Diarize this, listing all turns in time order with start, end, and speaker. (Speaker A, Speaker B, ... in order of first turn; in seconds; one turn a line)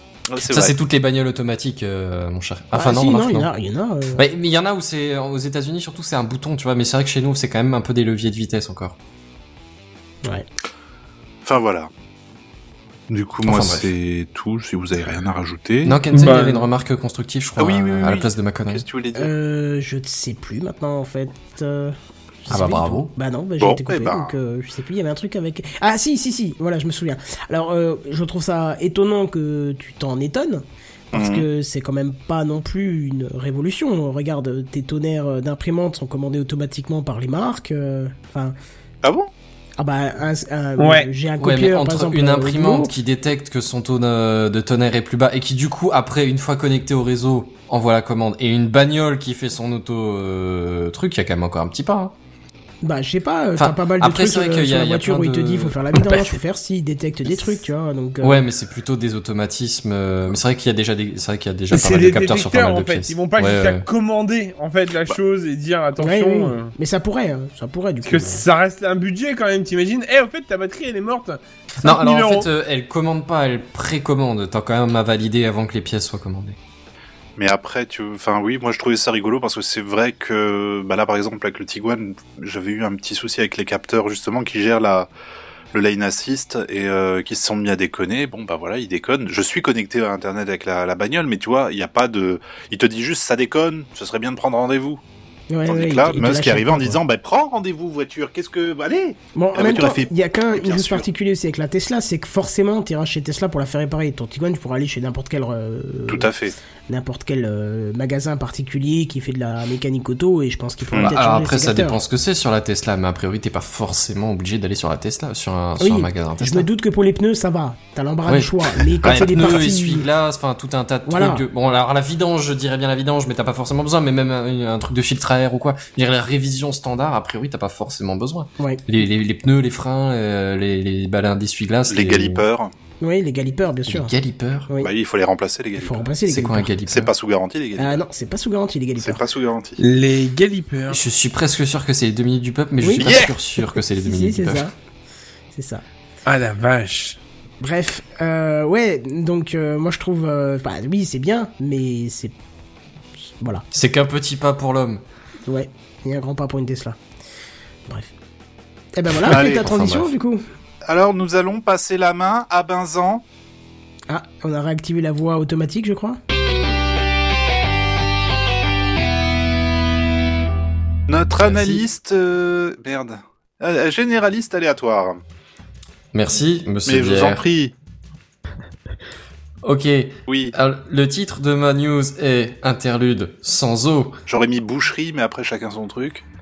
Speaker A: 0.3-0.8
Speaker B: 0.4-3.5
Speaker C: 2.7-4.2
Speaker B: 4.1-8.9
Speaker A: 11.4-11.9
Speaker A: 13.1-16.0
Speaker B: 13.4-13.9
Speaker B: 15.8-18.8
Speaker D: 16.1-16.7
Speaker A: 17.6-19.3
Speaker C: 19.1-38.5
Speaker B: 22.5-23.1
Speaker A: 23.6-24.3
Speaker A: 31.1-31.4
Speaker A: 39.0-39.3
Speaker C: 39.8-42.9
Speaker D: 40.8-41.1
Speaker B: 41.4-52.1
Speaker C: 52.8-58.4
Speaker B: 53.6-56.2
Speaker B: 58.2-63.9
Speaker D: 61.7-66.7
Speaker C: 66.0-68.4
Speaker D: 68.0-72.5
Speaker B: 71.8-76.6
Speaker A: 77.4-85.1
Speaker A: 85.7-95.0
Speaker C: 95.5-97.0
Speaker A: 95.7-101.1
Speaker C: 99.3-106.3
Speaker A: 106.1-106.5
Speaker C: 106.9-112.0
Speaker B: 110.9-116.7
Speaker C: 115.8-120.1
Speaker B: 118.2-132.4
Speaker C: 121.0-121.4
Speaker A: 131.9-132.7
Speaker C: 133.0-134.1
Speaker B: 133.9-134.7
Speaker A: 134.8-136.1
Speaker C: 135.8-136.7
Speaker B: 136.3-137.1
Speaker A: 136.9-138.0
Speaker C: 137.8-139.2
Speaker A: 139.0-139.8
Speaker D: 139.8-141.0
Speaker B: 140.9-144.7
Speaker C: 142.8-144.7
Speaker A: 143.0-143.3
Speaker C: 145.5-145.8
Speaker D: 146.2-147.2
Speaker C: 147.6-152.3
Speaker C: 153.4-153.6
Speaker B: 153.7-155.0
Speaker C: 155.5-157.0
Speaker C: 157.9-158.1
Speaker C: 158.9-160.4
Speaker A: 159.2-159.6
Speaker B: 159.2-160.1
Speaker A: 160.8-163.2
Speaker C: 164.1-166.2
Speaker A: 171.1-175.2
Speaker B: 171.4-171.8
Speaker B: 176.1-177.4
Speaker A: 176.8-177.7
Speaker B: 179.6-184.2
Speaker A: 180.3-180.5
Speaker A: 184.3-186.2